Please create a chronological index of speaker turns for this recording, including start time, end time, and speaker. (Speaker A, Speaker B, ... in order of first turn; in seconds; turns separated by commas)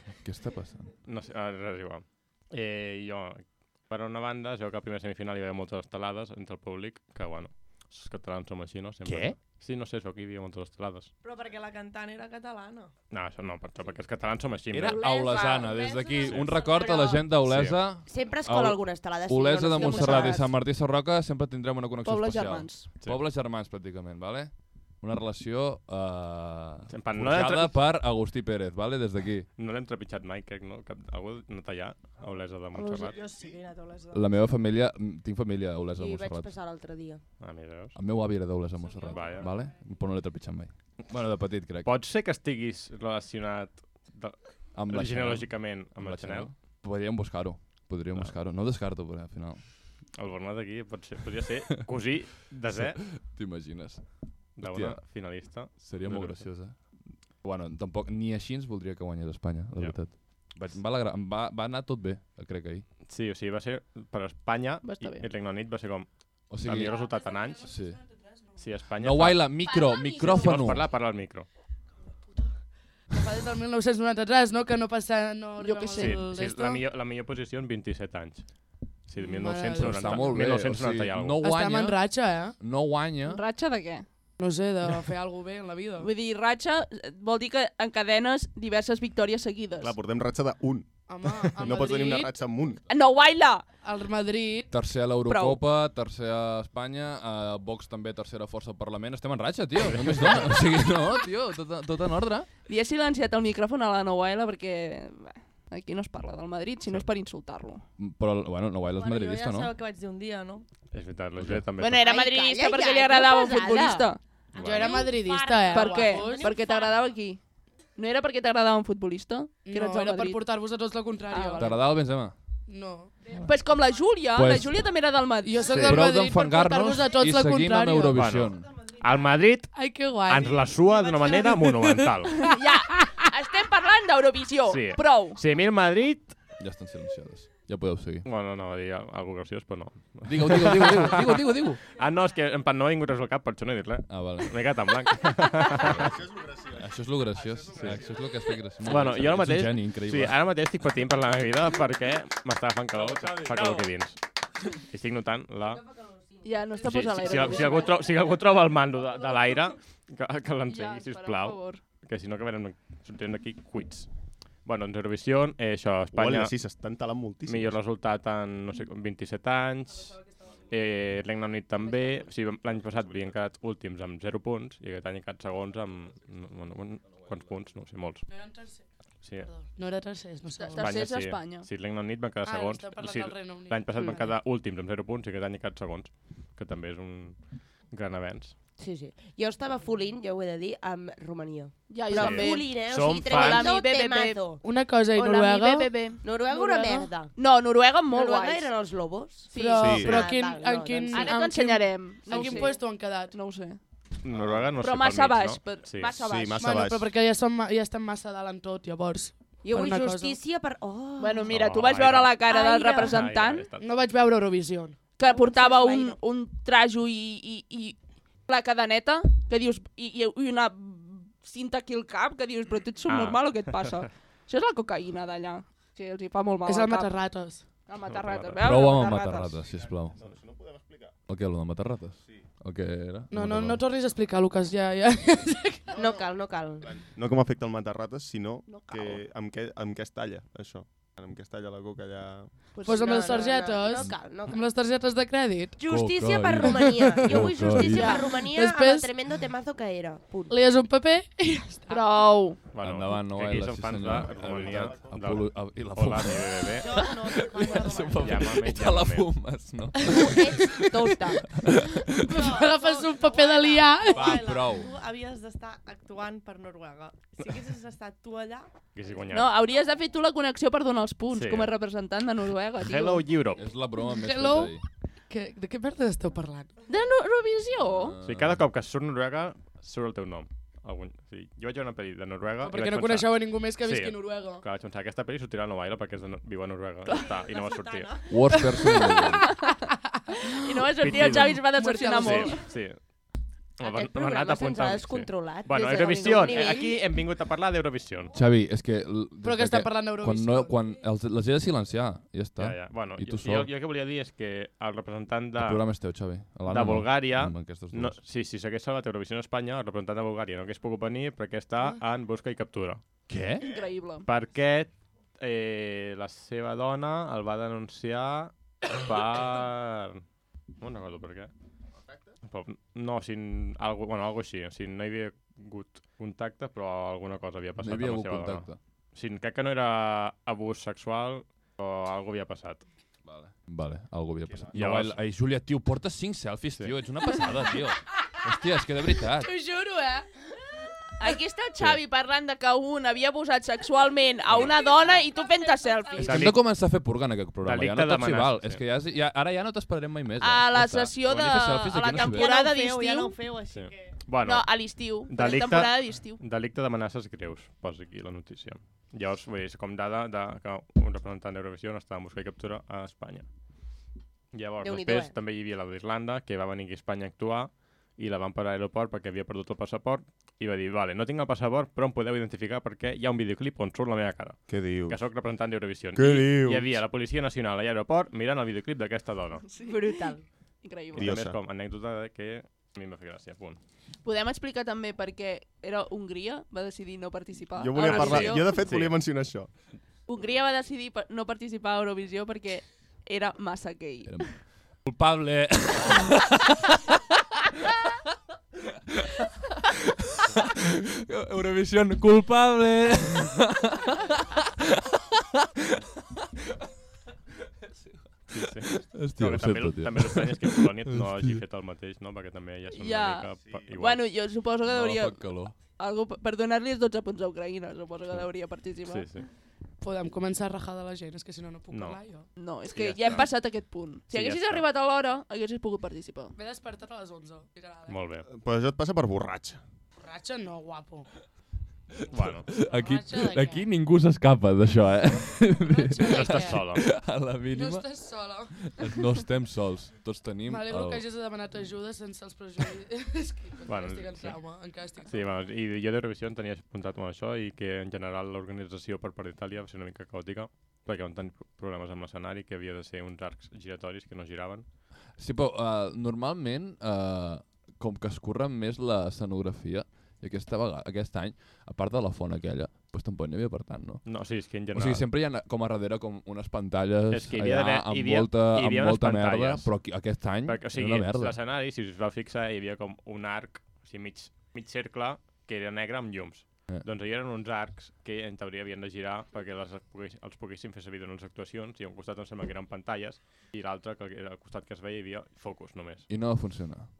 Speaker A: 0.2-0.9, Speaker B: 1.0-11.1, Speaker A: 9.1-9.3, Speaker C: 11.2-12.9, Speaker B: 13.1-15.0, Speaker A: 14.7-29.5, Speaker D: 14.8-15.8, Speaker C: 15.3-17.3, Speaker B: 16.2-16.6, Speaker B: 17.4-17.8, Speaker E: 18.1-20.5, Speaker D: 19.7-20.5, Speaker D: 22.0-22.9, Speaker B: 26.9-27.8, Speaker B: 29.6-33.2, Speaker D: 32.7-33.1, Speaker C: 33.1-34.3, Speaker A: 34.1-36.5, Speaker E: 36.0-37.2, Speaker B: 37.4-38.0, Speaker A: 37.9-41.9, Speaker B: 39.0-39.5, Speaker B: 41.8-46.5, Speaker A: 44.7-49.6, Speaker B: 50.1-53.0, Speaker A: 52.7-55.0, Speaker B: 54.6-56.5, Speaker A: 55.5-62.8, Speaker B: 63.1-67.7, Speaker D: 64.8-65.3, Speaker A: 66.5-67.0, Speaker A: 67.6-68.0, Speaker B: 68.6-69.5, Speaker A: 69.0-70.8, Speaker D: 69.6-70.8, Speaker B: 70.2-71.5, Speaker F: 73.1-76.8, Speaker D: 75.6-76.3, Speaker B: 76.0-81.4, Speaker F: 79.2-80.4, Speaker A: 79.5-83.4, Speaker F: 81.4-82.6, Speaker D: 83.2-84.0, Speaker F: 84.4-86.1, Speaker D: 86.0-90.0, Speaker G: 89.8-92.8, Speaker F: 91.1-92.3, Speaker D: 92.9-93.7, Speaker F: 93.8-94.7, Speaker A: 94.7-102.5, Speaker D: 95.2-95.6, Speaker B: 99.9-100.5, Speaker D: 102.7-107.8, Speaker A: 108.0-109.7, Speaker C: 108.9-110.7, Speaker B: 110.9-112.1, Speaker A: 111.4-111.7, Speaker D: 111.8-114.2, Speaker E: 112.0-114.1, Speaker B: 114.5-115.0, Speaker F: 114.6-116.5, Speaker E: 114.8-116.6, Speaker C: 114.8-117.1, Speaker D: 115.7-117.4, Speaker D: 118.0-120.4, Speaker F: 119.6-122.0, Speaker D: 121.3-121.7, Speaker A: 121.6-122.3, Speaker F: 122.7-123.2, Speaker D: 123.3-126.0, Speaker A: 124.3-124.7, Speaker F: 125.4-128.2, Speaker A: 125.6-128.7, Speaker B: 128.1-129.7, Speaker F: 129.7-133.3, Speaker B: 130.2-132.3, Speaker D: 132.2-135.4, Speaker B: 134.7-136.3, Speaker A: 136.6-138.2, Speaker B: 138.2-146.1, Speaker A: 140.2-141.8, Speaker A: 144.1-144.6, Speaker G: 145.8-148.2, Speaker A: 145.8-146.1, Speaker A: 146.7-150.4, Speaker B: 147.7-148.0, Speaker B: 148.8-154.2, Speaker B: 154.7-155.8, Speaker D: 156.4-158.1, Speaker B: 156.8-164.1, Speaker D: 160.7-161.8, Speaker B: 164.6-166.5, Speaker G: 166.1-167.8, Speaker B: 167.4-170.2, Speaker B: 170.7-178.2, Speaker F: 178.3-181.0, Speaker B: 179.2-179.5, Speaker D: 180.6-181.7, Speaker B: 180.8-188.5, Speaker F: 182.4-184.4, Speaker E: 188.8-194.6, Speaker D: 191.9-194.5, Speaker B: 192.1-193.7, Speaker F: 194.6-196.0, Speaker D: 195.1-198.7, Speaker E: 196.2-197.3, Speaker E: 198.1-201.4, Speaker D: 199.5-200.3, Speaker F: 199.5-203.3, Speaker G: 199.8-200.3, Speaker D: 201.1-203.8, Speaker E: 202.3-202.8, Speaker B: 204.2-206.2, Speaker G: 204.3-204.7, Speaker D: 204.8-206.7, Speaker G: 206.2-207.1, Speaker F: 206.6-210.4, Speaker E: 209.6-211.5, Speaker D: 211.2-213.7, Speaker B: 211.5-212.4, Speaker E: 212.5-213.2, Speaker B: 212.9-213.9, Speaker F: 213.8-215.0, Speaker D: 215.2-227.2, Speaker E: 215.2-216.2, Speaker B: 223.1-224.1, Speaker F: 226.7-227.7, Speaker D: 227.8-229.6, Speaker B: 228.1-228.6, Speaker A: 228.6-230.2, Speaker G: 229.7-231.1, Speaker A: 231.3-233.8, Speaker F: 233.3-235.9, Speaker G: 235.9-236.3, Speaker E: 235.9-236.9, Speaker G: 236.8-242.6, Speaker D: 238.7-239.2, Speaker D: 242.7-244.1, Speaker E: 242.8-244.6, Speaker F: 242.8-245.8, Speaker E: 245.8-250.6, Speaker A: 245.9-248.1, Speaker F: 246.6-249.1, Speaker D: 247.8-248.3, Speaker F: 250.5-252.0, Speaker D: 251.9-252.6, Speaker B: 252.7-257.1, Speaker A: 252.8-262.4, Speaker G: 254.1-255.2, Speaker C: 256.8-258.6, Speaker B: 258.1-259.3, Speaker E: 260.1-261.4, Speaker F: 262.1-264.4, Speaker C: 262.3-268.7, Speaker A: 264.1-264.9, Speaker B: 268.9-269.5, Speaker D: 269.3-273.3, Speaker B: 271.3-271.7, Speaker B: 272.8-273.7, Speaker A: 273.6-274.8, Speaker F: 274.0-274.8, Speaker F: 275.3-276.7, Speaker D: 276.9-278.2, Speaker A: 277.8-278.6, Speaker B: 278.2-288.2, Speaker F: 282.6-284.6, Speaker C: 287.1-288.6, Speaker A: 288.3-289.4, Speaker D: 288.7-289.8, Speaker F: 288.9-292.6, Speaker D: 290.4-292.6, Speaker B: 291.0-291.6, Speaker B: 292.2-293.0, Speaker B: 293.8-298.3, Speaker E: 293.8-297.1, Speaker D: 295.8-296.8, Speaker A: 298.3-303.7, Speaker F: 299.4-300.8, Speaker B: 302.6-305.9, Speaker A: 305.6-308.2, Speaker B: 306.7-313.0, Speaker A: 313.3-313.7, Speaker D: 313.6-314.3, Speaker B: 314.2-320.2, Speaker B: 320.8-321.5, Speaker B: 322.5-332.9, Speaker A: 327.8-328.8, Speaker A: 333.2-339.5, Speaker B: 334.7-335.2, Speaker F: 339.2-340.3, Speaker D: 341.2-346.6, Speaker B: 344.5-344.7, Speaker B: 346.1-346.6, Speaker A: 346.2-352.5, Speaker B: 347.6-348.8, Speaker D: 350.4-353.4, Speaker C: 352.2-354.2, Speaker B: 353.7-363.5, Speaker D: 354.4-356.4, Speaker B: 364.5-379.6, Speaker E: 364.8-365.3, Speaker G: 374.7-375.2, Speaker G: 376.1-376.9, Speaker D: 379.6-381.3, Speaker E: 379.8-380.4, Speaker B: 381.1-383.8, Speaker G: 381.1-381.6, Speaker D: 384.2-388.8, Speaker G: 387.8-389.7, Speaker B: 388.0-389.1, Speaker D: 390.3-394.6, Speaker A: 394.2-397.0, Speaker A: 400.4-400.7, Speaker A: 401.2-404.6, Speaker A: 405.6-405.9, Speaker B: 408.5-414.2, Speaker A: 408.5-411.6, Speaker D: 412.9-419.4, Speaker A: 414.9-415.8, Speaker B: 419.0-419.5, Speaker F: 420.0-422.5, Speaker B: 421.9-422.2, Speaker D: 422.6-426.6, Speaker B: 422.9-423.5, Speaker B: 424.3-424.8, Speaker F: 426.6-428.2, Speaker B: 428.1-428.5, Speaker G: 428.5-429.8, Speaker F: 430.2-431.3, Speaker A: 432.2-441.2, Speaker B: 432.3-432.7, Speaker F: 432.7-433.8, Speaker F: 435.9-436.8, Speaker B: 436.2-437.1, Speaker F: 437.7-439.0, Speaker F: 440.6-445.5, Speaker B: 443.8-454.9, Speaker A: 455.3-471.6, Speaker B: 464.2-465.2, Speaker B: 467.3-470.0, Speaker B: 470.6-486.3, Speaker A: 486.3-487.1